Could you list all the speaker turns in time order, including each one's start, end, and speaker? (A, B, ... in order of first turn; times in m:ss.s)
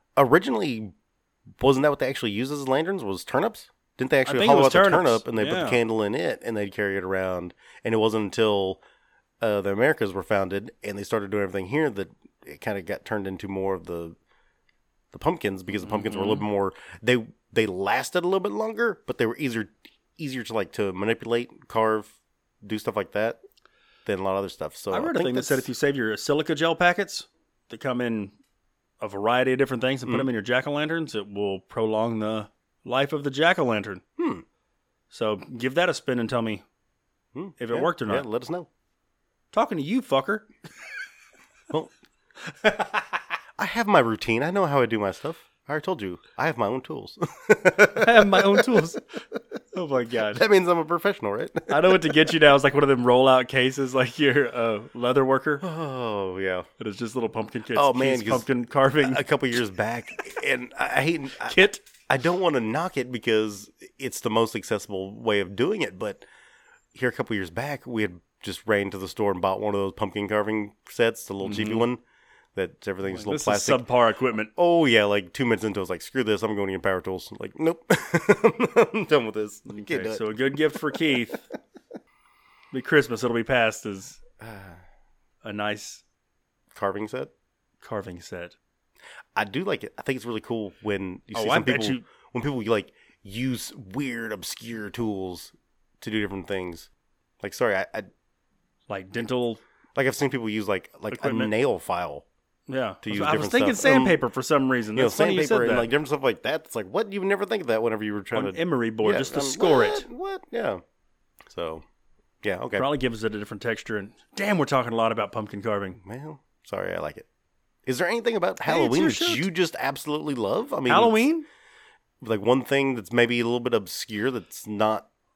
0:00.2-0:00.9 A
0:01.6-0:08.8 A
0:04.3-0:05.8 B
0:09.4-0:14.2 A
0:15.1-0:23.4 A
0:15.8-0:16.4 B
0:24.1-0:25.7 A
0:24.9-0:28.3 B
0:29.0-0:34.0 B
0:34.2-0:34.4 A
0:35.1-0:36.6 B
0:37.3-0:38.7 A
0:37.6-0:38.3 B
0:39.5-0:40.5 B
0:42.5-0:43.2 B
0:43.6-0:49.0 A
0:47.8-0:49.1 B
0:49.7-0:50.4 B
0:50.3-0:52.3 A
0:51.7-0:55.6 B
0:55.6-0:56.7 A
0:56.8-0:59.2 B
0:57.7-1:06.2 A
1:01.4-1:01.8 B
1:06.9-1:12.0 A
1:11.4-1:11.9 B
1:12.6-1:13.8 A
1:13.1-1:14.5 B
1:14.6-1:21.1 A
1:19.7-1:21.4 B
1:22.7-1:24.2 B
1:24.4-1:24.8 A
1:25.4-1:26.0 B
1:26.7-1:27.3 A
1:27.8-1:28.6 B
1:29.4-1:36.9 A
1:31.3-1:32.1 B
1:37.4-1:38.1 A
1:38.9-1:39.6 B
1:40.0-1:42.2 A
1:41.1-1:41.5 B
1:42.7-1:45.9 B
1:43.0-1:44.2 A
1:45.0-1:50.8 A
1:48.3-1:50.1 B
1:51.5-1:51.8 A
1:52.4-1:52.9 A
1:52.8-1:56.0 B
1:56.0-1:57.3 A
1:57.9-2:01.2 A
1:58.6-1:59.5 B
2:00.9-2:01.5 B
2:02.2-2:05.1 A